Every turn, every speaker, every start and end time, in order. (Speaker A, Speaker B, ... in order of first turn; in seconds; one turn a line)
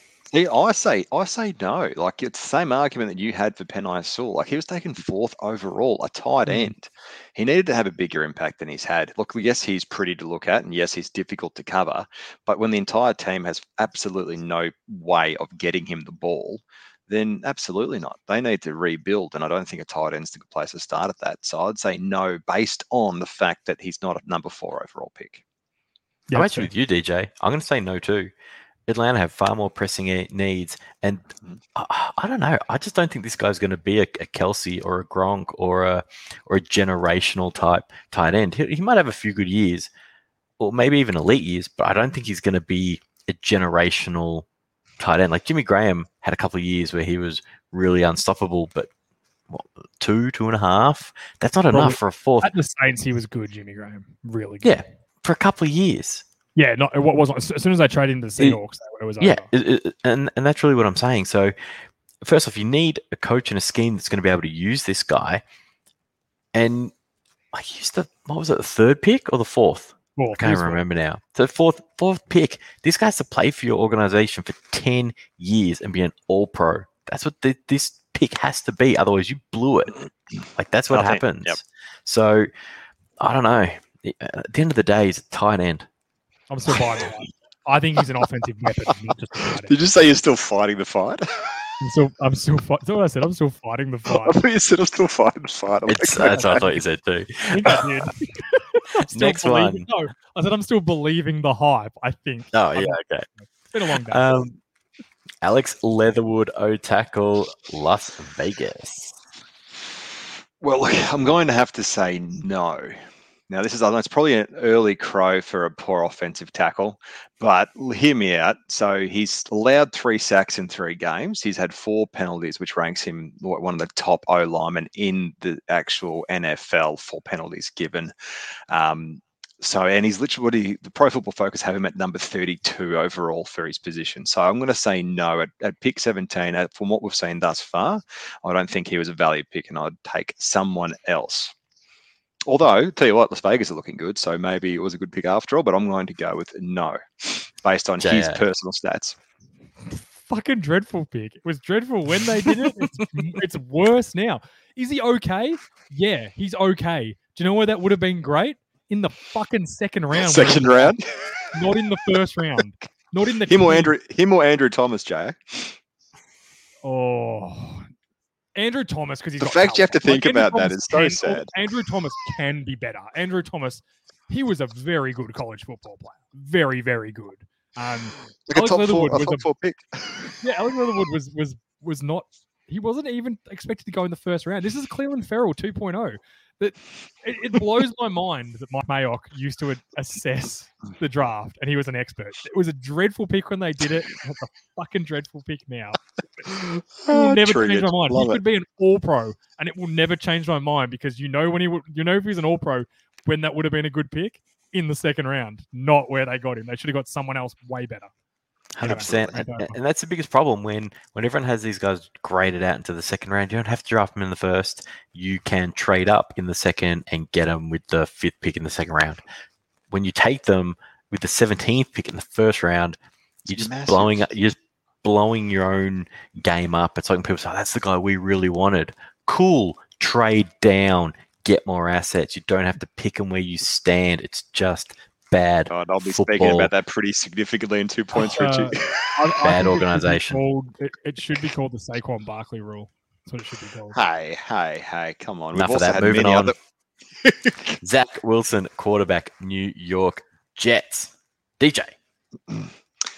Speaker A: 0.3-25.4
Speaker B: 26.3-26.7
Speaker C: 26.3-28.3
Speaker C: 28.9-39.9
Speaker C: 40.6-44.5
Speaker C: 45.0-48.9
Speaker C: 49.5-52.5
Speaker B: 51.7-54.8
Speaker C: 54.6-56.2
Speaker B: 56.6-59.5
Speaker C: 59.2-61.5
Speaker C: 62.2-65.4
Speaker C: 66.5-66.9
Speaker C: 67.5-80.0
Speaker B: 70.2-70.8
Speaker C: 80.6-82.5
Speaker A: 80.9-81.6
Speaker C: 83.2-85.9
Speaker B: 86.5-89.7
Speaker A: 89.7-91.6
Speaker B: 91.8-94.4
Speaker A: 94.1-96.7
Speaker C: 95.9-97.8
Speaker B: 96.2-96.6
Speaker B: 97.5-104.3
Speaker C: 99.1-99.9
Speaker C: 102.5-103.3
Speaker C: 104.1-104.6
Speaker C: 105.4-109.2
Speaker A: 110.6-113.0
Speaker A: 113.5-128.1
Speaker A: 128.7-141.5
Speaker A: 142.5-149.2
Speaker C: 148.0-148.4
Speaker B: 149.8-161.0
Speaker A: 160.1-161.5
Speaker B: 161.5-163.9
Speaker A: 163.5-165.8
Speaker B: 166.8-167.9
Speaker B: 168.6-179.5
Speaker A: 169.4-171.5
Speaker A: 178.5-180.4
Speaker B: 180.4-196.0
Speaker A: 196.5-198.4
Speaker B: 197.1-208.1
Speaker C: 208.8-219.2
Speaker B: 208.8-209.8
Speaker A: 208.8-209.3
Speaker C: 219.9-236.7
Speaker A: 223.5-224.3
Speaker A: 235.7-239.1
Speaker B: 238.2-244.0
Speaker C: 239.4-240.4
Speaker A: 243.9-246.6
Speaker C: 245.5-246.5
Speaker A: 247.2-247.8
Speaker C: 247.8-251.9